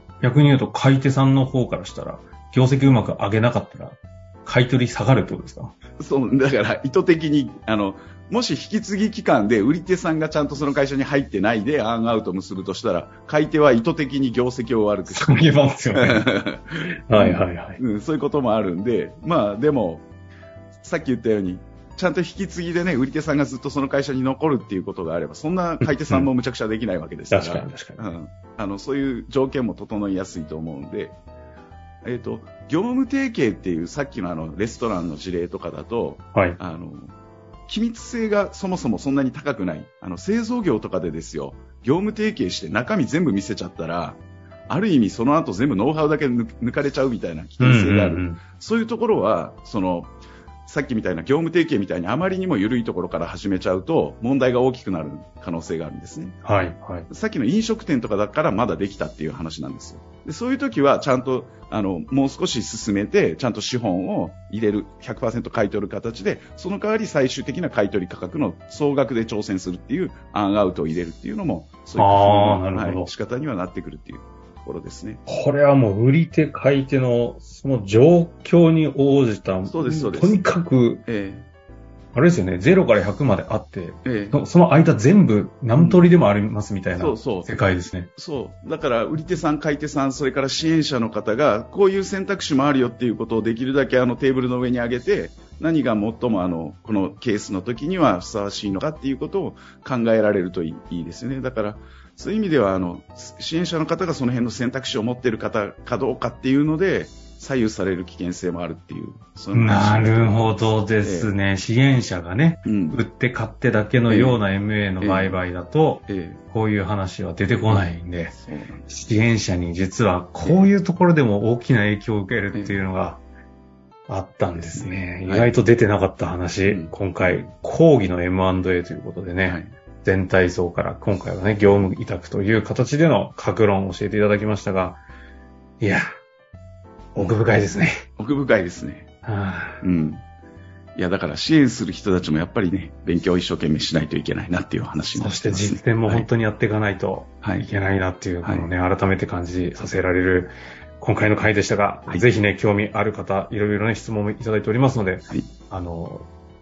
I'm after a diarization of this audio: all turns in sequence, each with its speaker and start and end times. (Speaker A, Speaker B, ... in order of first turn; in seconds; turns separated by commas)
Speaker A: 0.2-5.7, Speaker B: 6.0-20.1, Speaker A: 15.1-16.3, Speaker A: 17.1-17.8, Speaker B: 20.8-31.2, Speaker A: 25.8-26.3, Speaker A: 27.3-28.0, Speaker B: 32.0-37.1, Speaker B: 37.7-50.1, Speaker A: 47.6-48.4, Speaker B: 50.6-56.4, Speaker A: 56.4-57.1, Speaker B: 57.1-75.2, Speaker A: 72.0-73.1, Speaker A: 75.2-81.0, Speaker B: 79.7-80.4, Speaker B: 81.0-81.5, Speaker A: 82.1-88.1, Speaker B: 84.0-84.4, Speaker B: 85.7-86.0, Speaker B: 86.9-87.5, Speaker B: 88.2-111.3, Speaker A: 109.5-118.3, Speaker B: 112.6-113.0, Speaker B: 114.1-114.4, Speaker B: 115.0-115.4, Speaker B: 116.1-116.4, Speaker B: 117.7-119.0, Speaker A: 118.9-123.2, Speaker B: 120.4-120.7, Speaker B: 122.5-122.8, Speaker A: 124.1-135.0, Speaker B: 124.5-125.5, Speaker B: 126.7-127.5, Speaker B: 129.4-129.8, Speaker B: 131.6-131.9, Speaker A: 135.8-136.1, Speaker A: 137.1-138.0, Speaker B: 138.2-139.1, Speaker A: 139.2-139.8, Speaker B: 139.8-140.2, Speaker B: 140.9-146.3, Speaker A: 145.1-156.3, Speaker B: 148.4-148.7